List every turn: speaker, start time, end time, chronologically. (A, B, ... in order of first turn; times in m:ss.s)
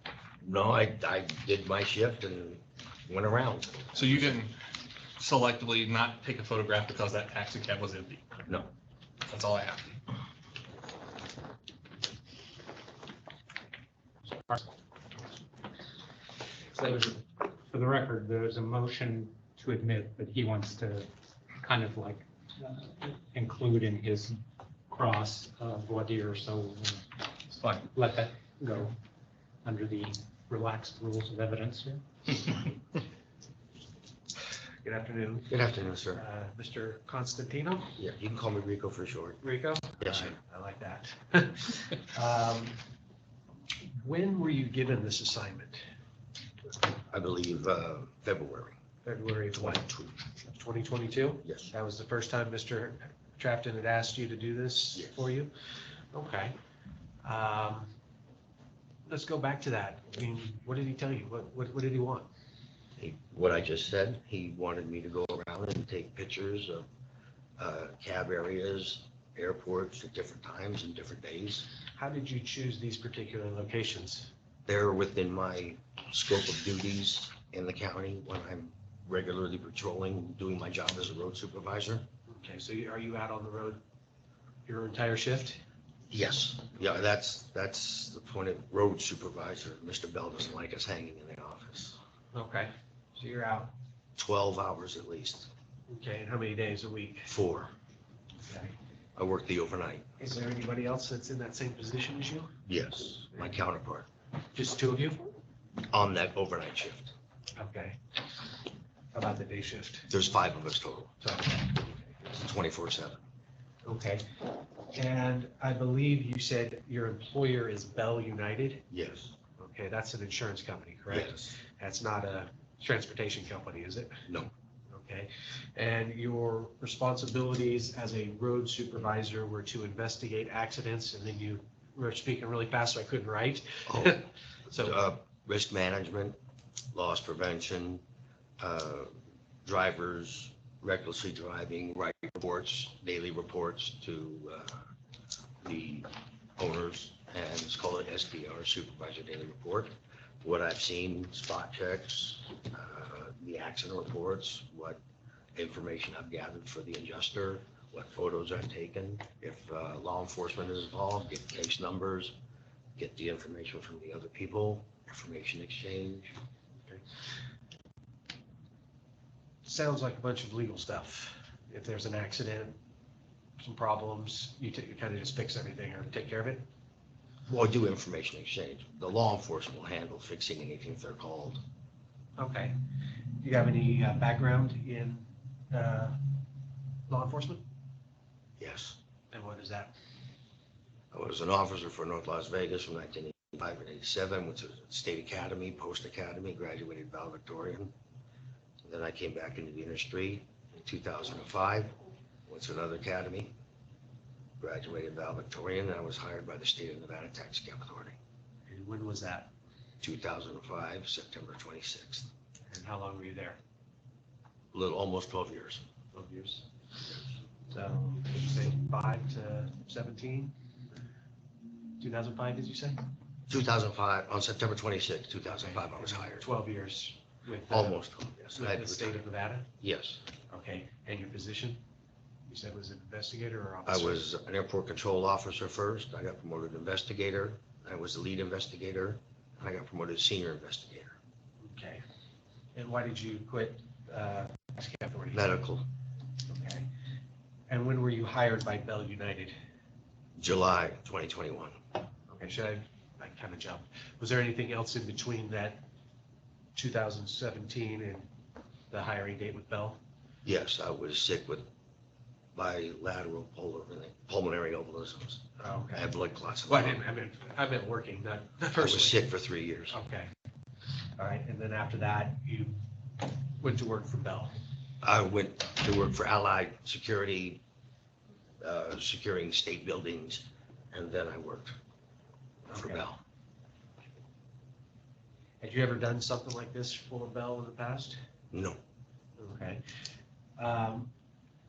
0:00.4-0:04.3 A
0:03.9-0:04.6 B
0:05.2-0:08.3 B
0:09.3-0:10.0 B
0:16.8-0:21.1 C
0:21.6-0:24.4 C
0:24.9-0:27.0 C
0:27.6-0:29.0 C
0:29.6-0:32.6 C
0:34.8-0:35.6 D
0:35.5-0:36.2 A
0:36.1-0:37.9 D
0:38.0-0:39.4 A
0:39.4-0:42.8 D
0:40.0-0:40.4 A
0:44.0-0:45.8 D
0:47.1-0:48.8 A
0:49.0-0:49.9 D
0:49.5-0:50.1 A
0:50.5-0:55.5 D
0:51.4-0:51.7 A
0:56.1-0:56.6 D
0:57.2-0:57.9 D
0:59.1-1:02.3 D
1:03.0-1:06.9 A
1:07.6-1:11.7 A
1:12.0-1:14.3 D
1:14.7-1:22.1 A
1:22.3-1:23.8 D
1:24.7-1:25.6 D
1:26.1-1:32.0 A
1:32.3-1:33.7 D
1:34.2-1:35.5 A
1:35.9-1:37.3 D
1:37.3-1:37.7 A
1:38.4-1:38.8 D
1:39.2-1:40.0 A
1:40.2-1:42.5 D
1:42.7-1:44.1 A
1:44.6-1:45.4 D
1:45.9-1:47.1 A
1:47.6-1:48.0 D
1:49.1-1:50.1 D
1:50.1-1:51.1 A
1:51.2-1:52.0 D
1:52.3-1:53.2 A
1:53.8-1:54.3 D
1:54.9-1:58.8 D
1:58.9-1:59.4 A
1:59.6-2:04.2 D
2:01.1-2:01.6 A
2:04.9-2:15.0 D
2:13.9-2:16.4 A
2:16.9-2:18.0 A
2:18.6-2:24.9 A
2:25.6-2:35.0 A
2:35.6-2:42.4 A
2:43.0-2:46.3 A
2:49.6-2:52.8 D
2:53.6-2:56.7 D
2:57.5-3:01.6 A
3:02.4-3:02.8 D
3:03.4-3:06.2 D
3:07.1-3:07.6 D
3:08.6-3:09.0 A
3:09.3-3:09.9 D
3:11.1-3:17.9 A
3:18.8-3:22.0 A
3:22.5-3:23.5 A
3:24.6-3:28.2 A
3:28.7-3:29.5 D
3:30.0-3:32.3 A
3:32.7-3:33.6 D
3:34.7-3:35.8 A
3:36.1-3:36.7 D
3:37.7-3:40.6 D
3:42.0-3:43.0 D
3:43.5-3:46.5 A
3:45.6-3:48.0 D
3:47.7-3:49.2 A
3:48.5-3:49.7 D
3:49.8-3:50.2 A
3:50.5-3:51.8 D
3:52.5-3:54.2 D
3:53.9-4:01.2 A
4:01.6-4:02.0 D
4:02.8-4:05.5 D
4:05.3-4:05.9 A
4:06.5-4:06.9 D
4:07.7-4:09.5 D
4:10.4-4:11.8 A
4:12.3-4:15.9 D
4:16.8-4:18.3 D
4:18.9-4:20.0 D
4:20.4-4:21.7 A
4:22.6-4:27.0 A
4:25.6-4:26.1 D
4:26.7-4:29.3 D
4:28.8-4:30.0 A
4:29.9-4:30.3 D
4:31.2-4:32.8 D
4:33.6-4:34.6 D
4:35.0-4:37.6 A
4:38.6-4:41.8 A
4:42.7-4:43.2 A
4:42.7-4:43.0 D
4:45.6-4:48.2 D
4:48.5-4:48.8 A
4:49.4-4:49.8 D
4:50.6-4:51.1 D